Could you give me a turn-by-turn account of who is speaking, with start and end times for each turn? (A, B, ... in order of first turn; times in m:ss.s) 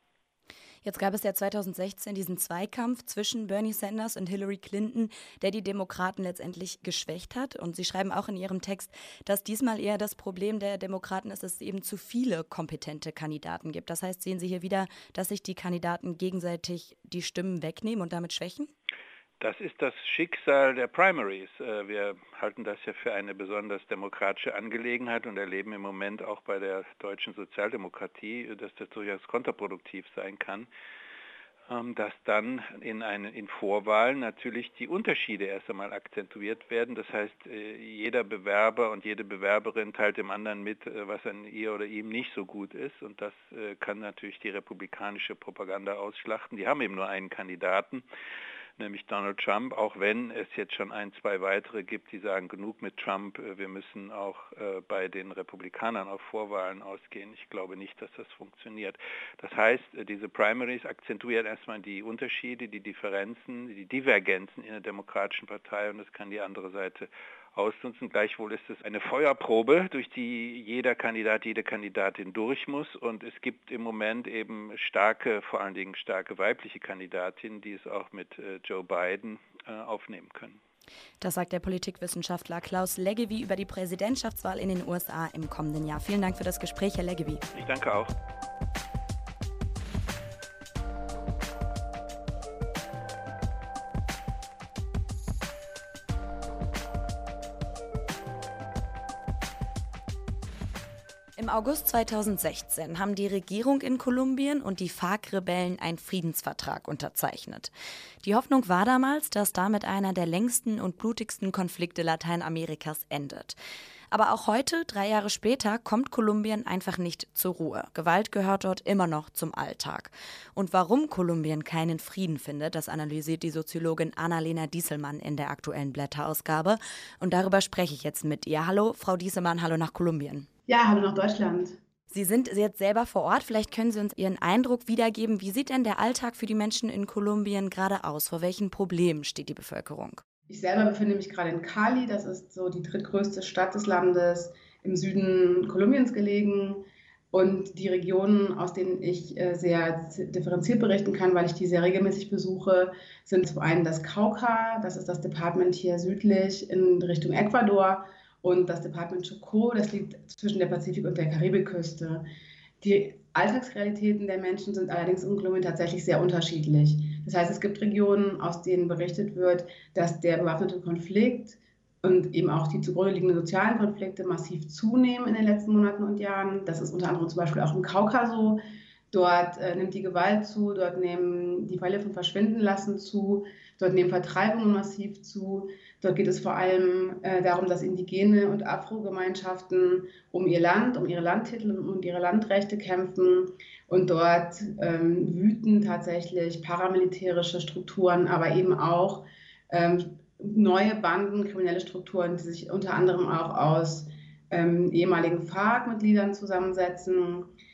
0:00.8-0:18.7 A
0:19.4-0:30.7 B
0:31.7-0:48.0 B
0:48.8-1:20.6 B
1:21.2-1:27.4 A
1:27.5-1:28.1 B
1:41.4-1:47.7 A
1:48.2-1:53.6 A
1:54.1-2:10.5 A
2:10.7-2:11.8 C
2:12.1-2:20.2 A
2:20.5-2:42.2 C
2:42.8-3:27.5 C